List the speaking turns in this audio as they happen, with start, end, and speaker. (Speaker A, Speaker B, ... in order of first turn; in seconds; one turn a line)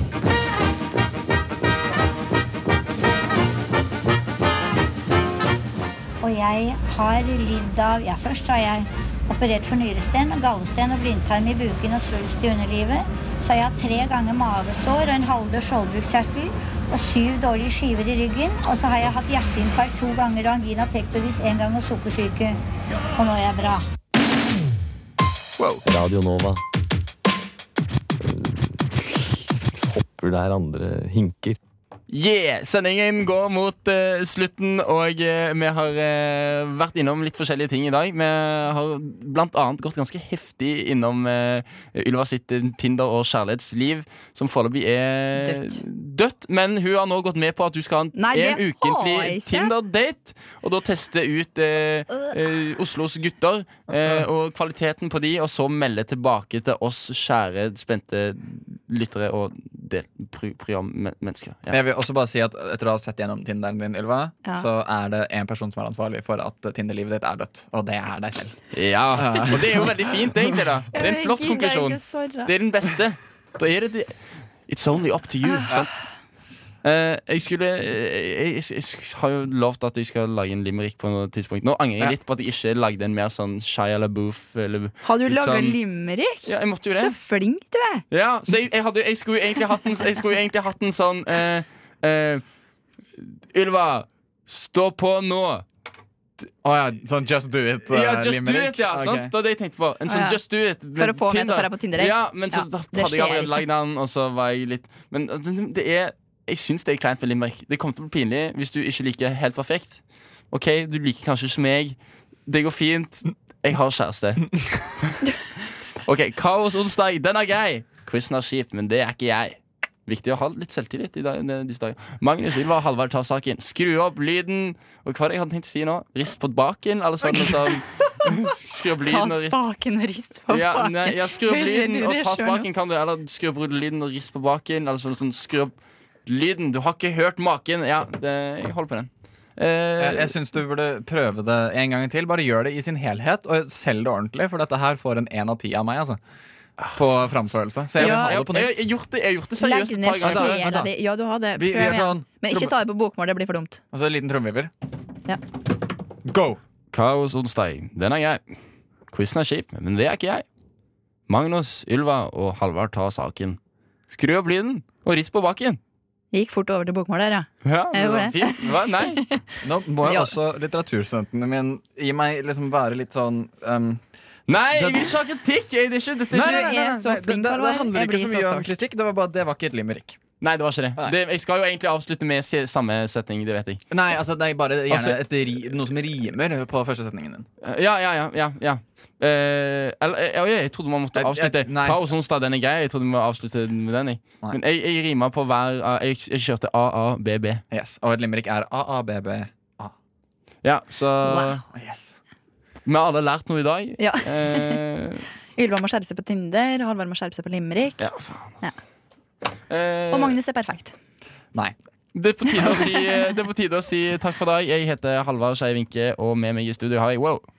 Speaker A: 6.2-22.6
Speaker A: 23.1-23.8
Speaker B: 25.6-25.8
Speaker C: 25.8-26.6
Speaker C: 28.2-29.2
Speaker C: 29.8-31.6
Speaker B: 32.1-61.8
Speaker D: 45.4-45.8
Speaker D: 48.1-49.7
Speaker E: 61.7-68.5
Speaker B: 68.7-75.9
Speaker E: 69.1-70.6
Speaker D: 70.9-72.5
Speaker B: 76.8-85.8
Speaker D: 85.0-88.0
Speaker B: 86.5-87.1
Speaker B: 88.1-92.4
Speaker B: 93.2-95.6
Speaker E: 96.6-99.3
Speaker B: 97.9-115.1
Speaker D: 100.1-100.4
Speaker D: 101.0-103.6
Speaker B: 116.0-129.6
Speaker D: 129.0-132.7
Speaker B: 130.5-140.3
Speaker E: 140.0-146.2
Speaker E: 146.9-148.8
Speaker B: 147.9-150.7
Speaker D: 148.0-148.4
Speaker D: 149.6-153.8
Speaker E: 150.2-150.9
Speaker E: 151.6-152.7
Speaker E: 153.9-154.7
Speaker E: 156.2-156.6
Speaker B: 156.9-158.4
Speaker B: 159.1-160.4
Speaker B: 161.3-163.6
Speaker B: 164.1-165.8
Speaker D: 166.3-168.7
Speaker B: 167.6-169.2
Speaker E: 169.6-174.0
Speaker D: 170.0-170.3
Speaker B: 174.5-176.7
Speaker E: 174.7-175.1
Speaker E: 176.3-180.2
Speaker D: 176.3-178.7
Speaker B: 180.4-183.8
Speaker E: 183.9-187.4
Speaker B: 184.9-185.2
Speaker B: 187.6-197.6
Speaker E: 191.1-192.0
Speaker E: 197.7-199.9
Speaker B: 200.6-201.6
Speaker D: 201.2-201.6
Speaker E: 201.7-202.1
Speaker B: 202.8-205.2
Speaker D: 204.0-204.8
Speaker D: 205.6-208.8
Speaker B: 208.0-208.6
Speaker B: 209.7-210.3
Speaker D: 210.1-210.9
Speaker B: 212.1-217.4